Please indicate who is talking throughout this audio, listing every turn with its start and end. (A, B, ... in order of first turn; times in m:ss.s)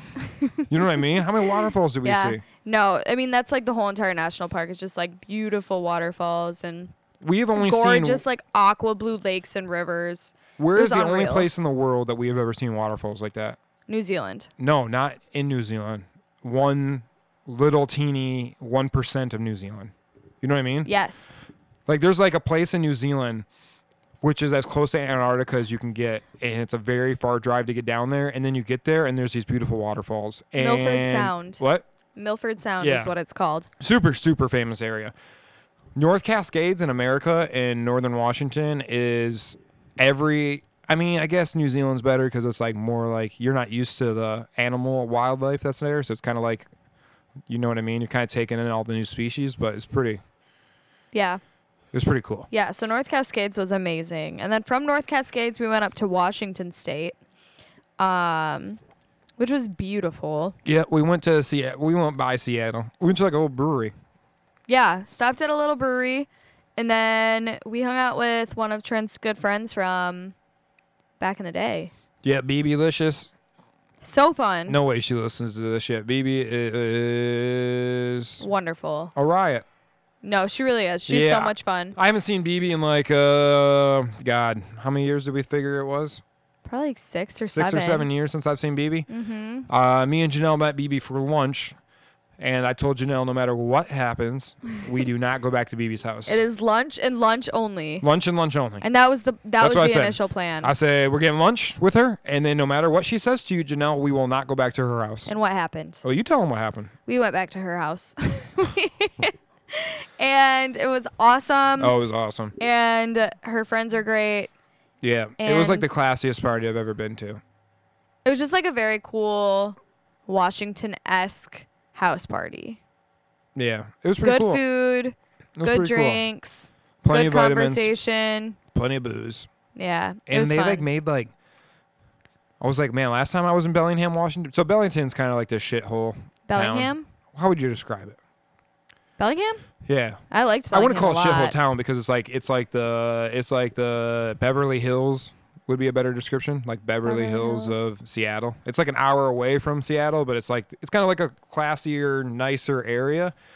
0:00.4-0:00.6 A
0:00.7-0:02.4 B
0:02.0-0:06.9 A
0:07.2-0:08.2 B
0:07.5-0:11.5 A
0:10.6-0:13.6 B
0:13.9-0:14.5 A
0:14.6-0:20.9 B
0:20.8-0:21.4 A
0:21.9-0:23.4 B
0:24.2-0:31.8 B
0:30.6-0:31.6 A
0:32.1-0:33.7 A
0:32.8-0:33.1 B
0:33.8-0:35.1 B
0:35.9-0:46.7 B
0:47.5-0:50.2 B
0:51.1-0:51.4 A
0:51.9-0:52.5 B
0:52.5-0:57.2 A
0:58.0-0:58.8 A
0:59.4-1:00.6 A
1:00.6-1:03.9 B
1:04.7-1:10.4 A
1:11.2-1:11.9 A
1:12.2-1:13.3 B
1:14.0-1:14.8 A
1:14.7-1:18.4 B
1:18.4-1:19.1 A
1:19.1-1:19.6 B
1:20.2-1:22.0 A
1:21.1-1:26.2 B
1:26.6-1:28.1 A
1:27.5-1:29.1 B
1:29.1-1:29.7 A
1:29.7-1:31.7 B
1:32.4-1:36.4 B
1:36.3-1:38.1 A
1:38.0-1:38.8 B
1:38.8-1:40.7 A
1:39.6-1:45.3 B
1:45.3-1:46.0 A
1:46.0-1:46.9 B
1:47.0-1:51.9 A
1:51.8-1:52.6 B
1:52.6-1:54.5 A
1:55.0-1:57.4 B
1:55.4-1:55.9 A
1:58.2-2:02.8 A
2:03.5-2:04.6 B
2:04.2-2:08.6 A
2:05.6-2:06.2 B
2:07.0-2:07.9 B
2:08.7-2:09.5 B
2:09.8-2:10.9 A
2:10.3-2:11.3 B
2:12.6-2:18.2 B
2:16.5-2:17.0 A
2:19.2-2:19.6 A
2:19.9-2:33.3 B
2:20.3-2:21.5 A
2:27.0-2:27.8 A